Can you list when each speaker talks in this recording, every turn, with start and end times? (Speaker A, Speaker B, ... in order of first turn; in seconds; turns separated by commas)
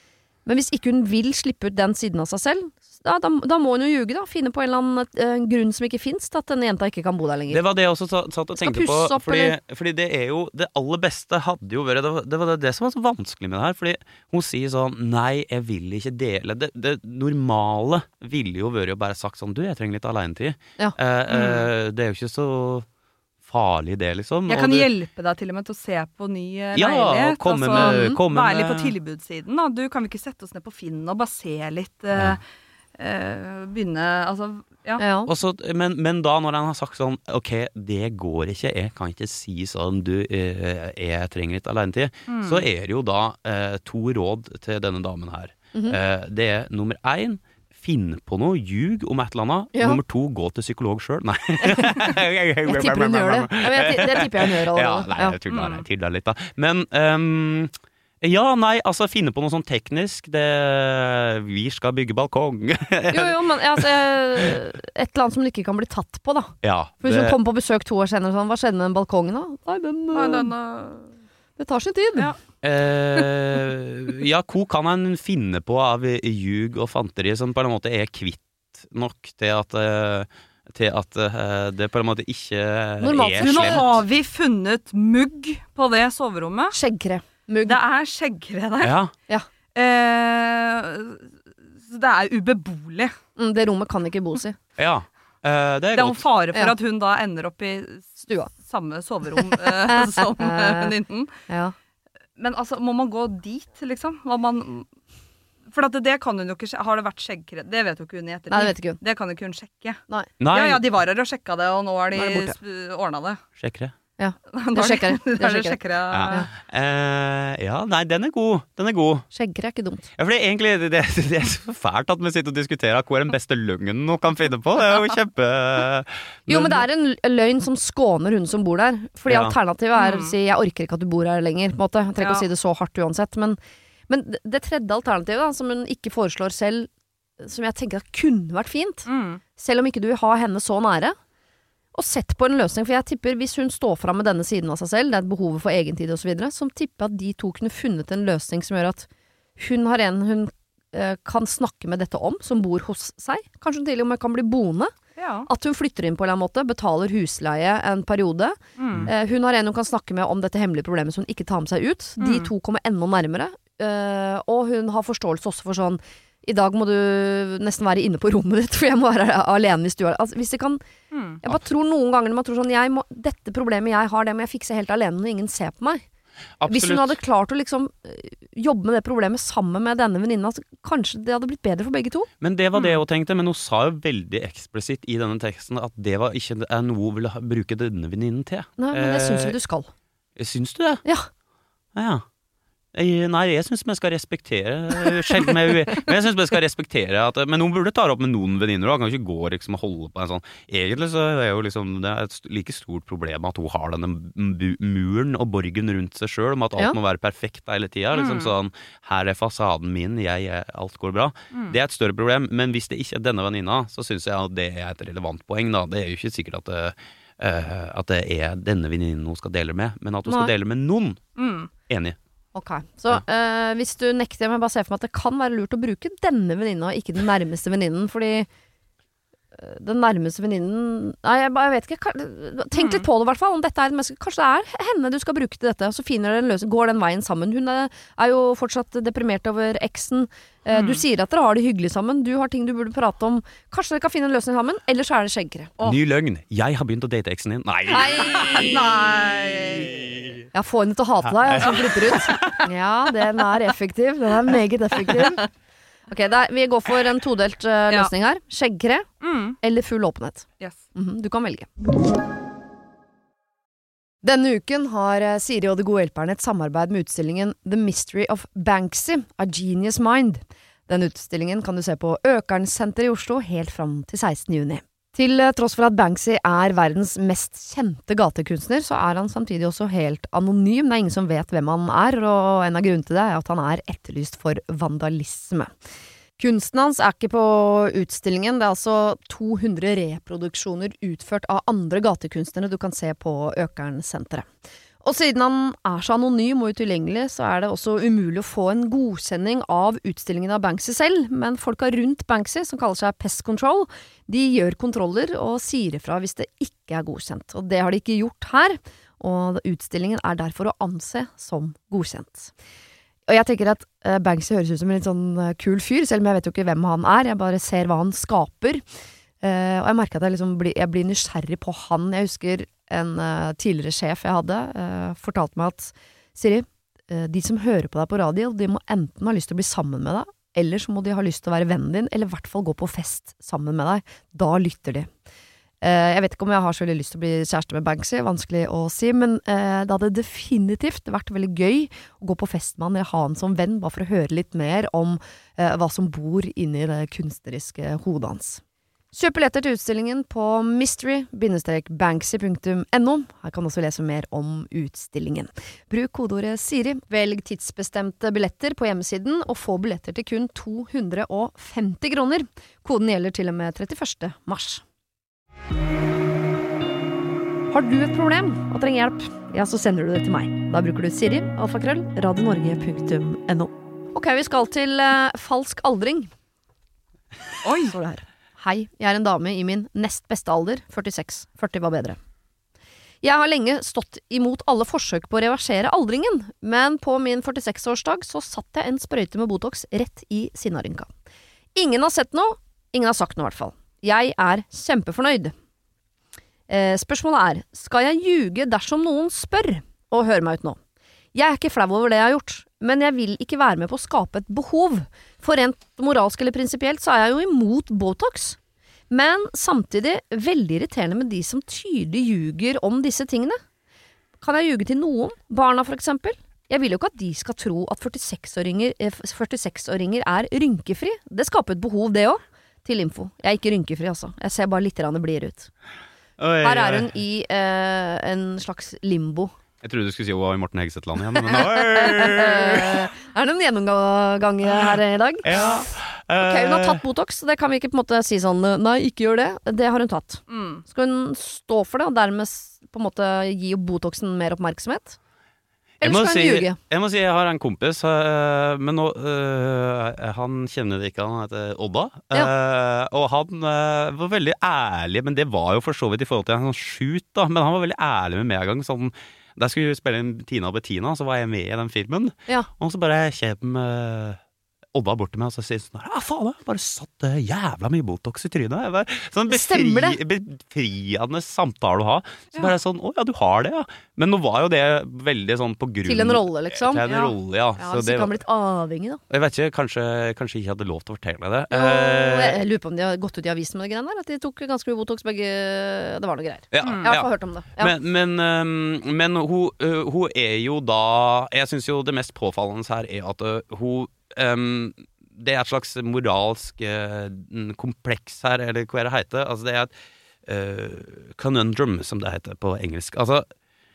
Speaker A: 0.5-7.6, Speaker B: 7.5-22.9, Speaker A: 8.6-9.6, Speaker C: 21.3-21.7, Speaker B: 23.4-24.9, Speaker C: 24.5-32.4, Speaker B: 26.7-28.9, Speaker A: 27.8-28.1, Speaker C: 33.0-35.0, Speaker A: 35.0-35.3, Speaker B: 35.3-64.6, Speaker C: 42.3-42.6, Speaker A: 49.7-50.0, Speaker A: 52.6-55.4, Speaker C: 55.5-55.9, Speaker A: 63.1-70.5, Speaker B: 66.6-67.4, Speaker C: 70.1-71.1, Speaker A: 71.6-72.3, Speaker B: 72.6-84.0, Speaker A: 83.0-84.0, Speaker C: 83.4-86.8, Speaker A: 86.7-87.8, Speaker C: 87.7-89.0, Speaker B: 88.8-89.1, Speaker C: 89.8-91.3, Speaker C: 91.8-93.2, Speaker A: 93.4-94.6, Speaker B: 94.8-96.2, Speaker C: 95.9-101.4, Speaker A: 98.2-98.5, Speaker A: 99.9-100.9, Speaker A: 101.5-101.7, Speaker C: 102.4-104.9, Speaker C: 105.7-113.4, Speaker A: 108.5-109.0, Speaker B: 110.4-110.8, Speaker A: 112.2-112.6, Speaker B: 113.6-113.9, Speaker A: 114.2-115.8, Speaker C: 114.5-116.5, Speaker B: 116.1-119.3, Speaker A: 119.3-120.1, Speaker B: 120.2-126.8, Speaker A: 126.5-133.6, Speaker B: 129.3-129.6, Speaker C: 130.0-130.3, Speaker C: 132.2-132.5, Speaker A: 134.1-141.2, Speaker C: 139.1-139.4, Speaker A: 141.9-149.1, Speaker A: 149.6-154.9, Speaker C: 155.2-155.5, Speaker A: 155.5-170.8, Speaker C: 158.8-159.1, Speaker C: 162.2-162.5, Speaker C: 171.1-171.4, Speaker A: 171.4-176.0, Speaker B: 176.6-177.2, Speaker A: 176.7-182.3, Speaker B: 182.4-189.6, Speaker C: 182.8-183.0, Speaker A: 188.8-189.9, Speaker B: 190.4-191.0, Speaker B: 191.9-192.2, Speaker B: 192.9-221.2, Speaker C: 208.1-208.5, Speaker C: 221.4-221.7, Speaker B: 221.9-222.2, Speaker A: 222.6-228.5, Speaker A: 229.5-245.7, Speaker C: 232.7-233.1, Speaker C: 240.7-241.0, Speaker B: 245.8-248.9, Speaker A: 247.9-248.7, Speaker C: 248.3-249.9, Speaker B: 249.8-250.4, Speaker A: 250.5-255.4, Speaker B: 251.5-252.6, Speaker A: 256.1-259.1, Speaker C: 259.2-259.6, Speaker A: 259.6-261.7, Speaker A: 264.2-285.7, Speaker A: 286.4-294.5, Speaker A: 295.0-312.5, Speaker A: 313.3-318.8, Speaker A: 319.4-335.1, Speaker A: 335.8-348.6, Speaker A: 349.1-364.8, Speaker A: 367.7-376.3, Speaker C: 377.6-377.9, Speaker A: 377.8-382.2, Speaker A: 383.2-391.1, Speaker A: 391.8-395.5, Speaker A: 396.7-400.8, Speaker A: 401.3-408.6, Speaker A: 409.1-413.6, Speaker A: 414.4-425.7, Speaker B: 426.4-427.1, Speaker A: 426.6-429.5, Speaker B: 429.8-433.1, Speaker A: 431.4-435.6, Speaker B: 435.4-437.0, Speaker A: 436.4-445.2, Speaker C: 440.5-440.8, Speaker A: 446.0-446.8, Speaker B: 446.0-464.4, Speaker B: 464.9-478.3, Speaker A: 469.5-470.2, Speaker A: 476.1-477.1, Speaker C: 477.1-477.3, Speaker A: 477.8-479.2, Speaker B: 479.3-482.6, Speaker A: 481.7-487.9, Speaker B: 486.7-499.9, Speaker B: 500.5-503.5